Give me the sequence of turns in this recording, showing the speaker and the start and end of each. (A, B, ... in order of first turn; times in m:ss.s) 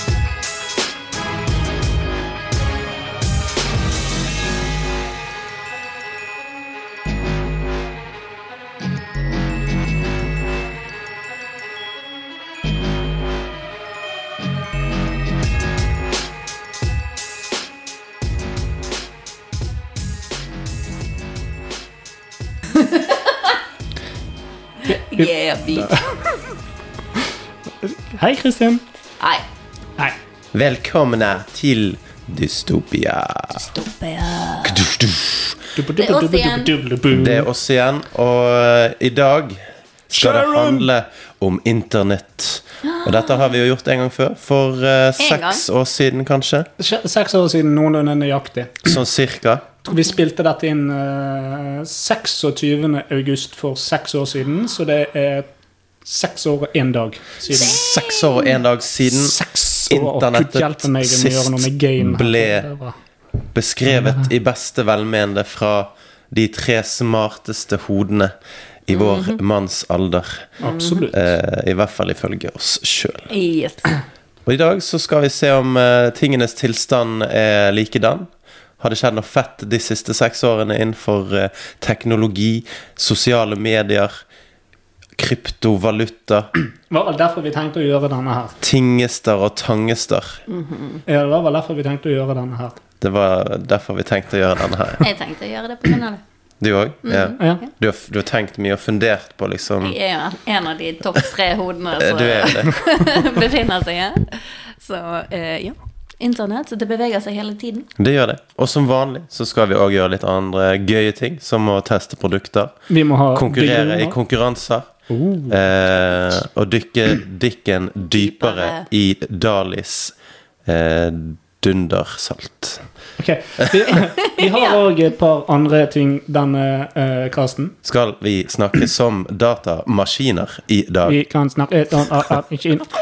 0:22.7-0:23.5 A
0:24.8-0:26.0 A
0:24.9-0:26.4 B
0:27.8-0:28.8 B
0:30.5-0:33.7 C
0:33.6-0:34.8 A
0:34.6-0:35.6 C
0:35.8-0:37.5 B
0:36.0-0:36.7 A
0:37.1-0:46.7 C
0:40.1-0:40.9 B
0:42.8-0:43.6 A
0:45.2-0:45.6 A
0:46.8-0:49.0 B
0:48.8-0:49.7 C
0:49.8-0:55.5 B
0:56.0-0:57.8 B
0:57.5-0:58.6 A
0:57.5-1:02.7 C
0:59.0-1:02.9 B
1:03.5-1:08.3 C
1:03.9-1:04.3 B
1:08.8-1:10.5 C
1:08.9-1:09.4 A
1:10.6-1:11.3 B
1:10.6-1:11.1 A
1:11.1-1:13.3 C
1:13.3-1:13.9 A
1:14.4-1:24.2 C
1:25.2-1:26.5 C
1:26.9-1:28.6 B
1:28.6-1:30.4 C
1:30.5-1:31.0 A
1:31.1-1:32.8 B
1:33.0-1:35.0 C
1:35.0-1:36.2 A
1:36.6-1:40.0 C
1:37.0-1:37.6 A
1:37.4-1:37.6 B
1:39.8-1:47.9 A
1:42.0-1:42.9 C
1:48.0-1:52.7 C
1:52.9-1:54.2 B
1:53.3-1:54.9 C
1:55.1-1:55.6 B
1:55.5-2:00.1 C
1:58.2-1:58.9 A
2:00.6-2:02.8 C
2:03.2-2:07.7 B
2:04.4-2:04.8 A
2:07.8-2:11.2 C
2:11.0-2:12.9 B